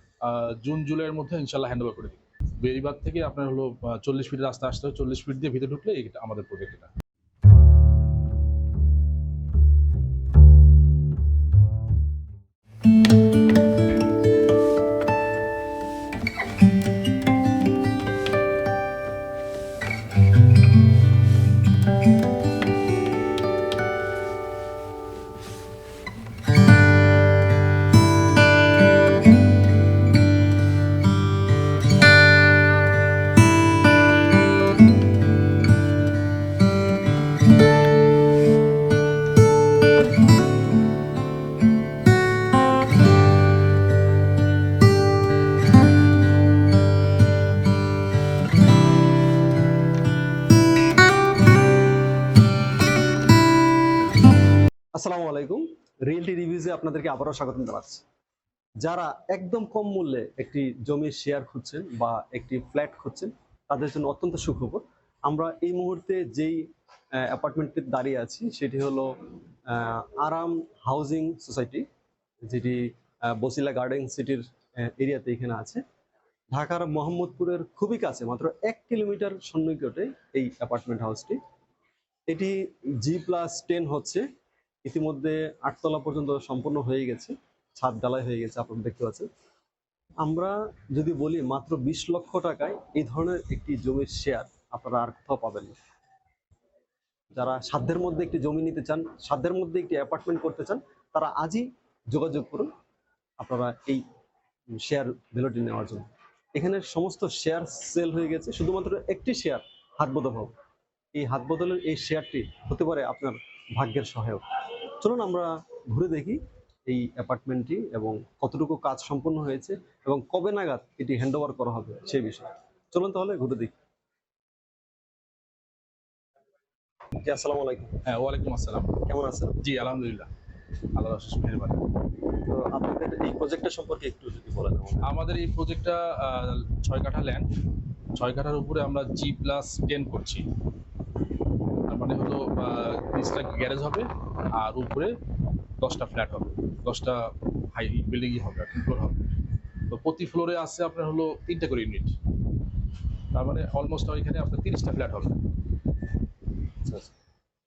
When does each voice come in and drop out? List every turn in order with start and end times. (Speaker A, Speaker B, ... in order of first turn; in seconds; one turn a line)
Speaker A: 0.2-6.9
Speaker B: 55.0-58.0
Speaker B: 58.8-66.6
Speaker B: 67.2-69.1
Speaker B: 69.7-71.9
Speaker B: 72.5-75.8
Speaker B: 76.5-81.4
Speaker B: 82.3-84.2
Speaker B: 84.8-89.3
Speaker B: 90.2-95.8
Speaker B: 97.3-102.7
Speaker B: 103.4-104.0
Speaker B: 104.8-110.5
Speaker B: 111.1-123.7
Speaker B: 127.2-128.0
Speaker A: 128.1-129.0
Speaker B: 129.1-129.6
Speaker A: 129.6-130.3
Speaker A: 130.9-131.8
Speaker B: 132.5-135.1
Speaker A: 135.0-137.5
Speaker A: 138.2-140.5
Speaker A: 141.9-145.2
Speaker A: 145.8-149.2
Speaker A: 149.9-152.2
Speaker A: 153.3-155.4
Speaker B: 156.8-157.1